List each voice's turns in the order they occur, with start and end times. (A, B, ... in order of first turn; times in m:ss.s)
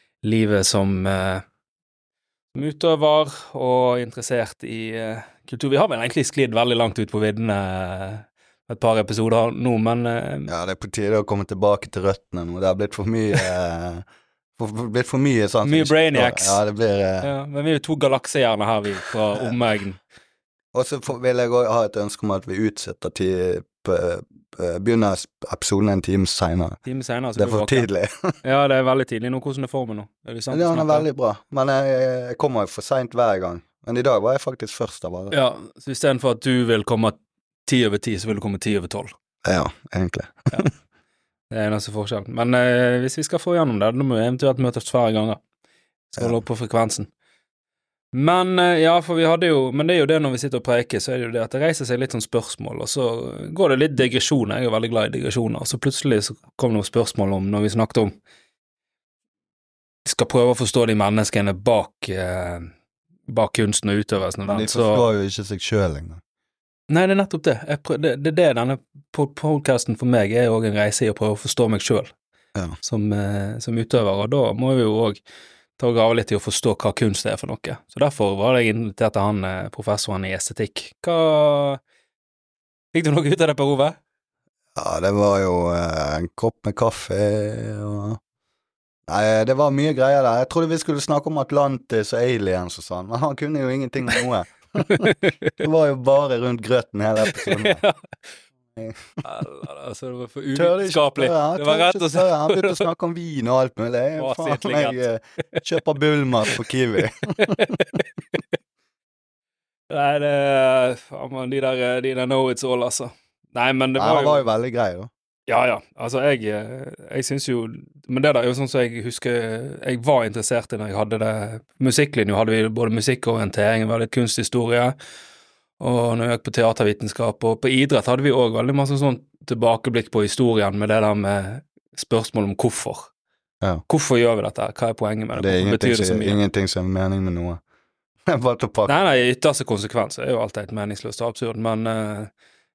0:00.2-0:01.4 A
0:02.5-0:10.5 A
0:10.5-0:14.0 B
0:14.6-0:17.3 B
0:15.6-0:16.6 A
0:17.2-0:20.0 A
0:20.7-0:26.8 B
0:26.9-0:27.9 A
0:27.4-0:28.4 B
0:28.4-0:31.1 A
0:30.5-0:35.4 B
0:35.3-0:39.1 A
0:39.4-0:40.4 B
0:41.5-0:45.4 A
0:46.1-0:47.1 A
0:48.1-0:58.2 A
1:00.0-1:02.7 A
1:03.3-1:05.0 A
1:04.5-1:06.2 B
1:06.9-1:12.1 A
1:12.8-1:15.2 A
1:15.8-1:21.8 A
1:22.9-1:24.0 A
1:24.8-1:28.2 B
1:29.1-1:37.8 B
1:34.9-1:35.5 A
1:37.3-1:38.2 A
1:38.8-1:39.2 B
1:39.2-1:42.8 A
1:40.6-1:47.6 B
1:44.2-1:45.6 A
1:47.4-1:48.4 A
1:49.9-1:54.5 A
1:54.0-1:55.1 B
1:55.5-2:05.0 A
2:05.8-2:13.1 A
2:13.9-2:16.4 A
2:15.4-2:17.6 B
2:18.3-2:19.0 B
2:18.9-2:22.3 A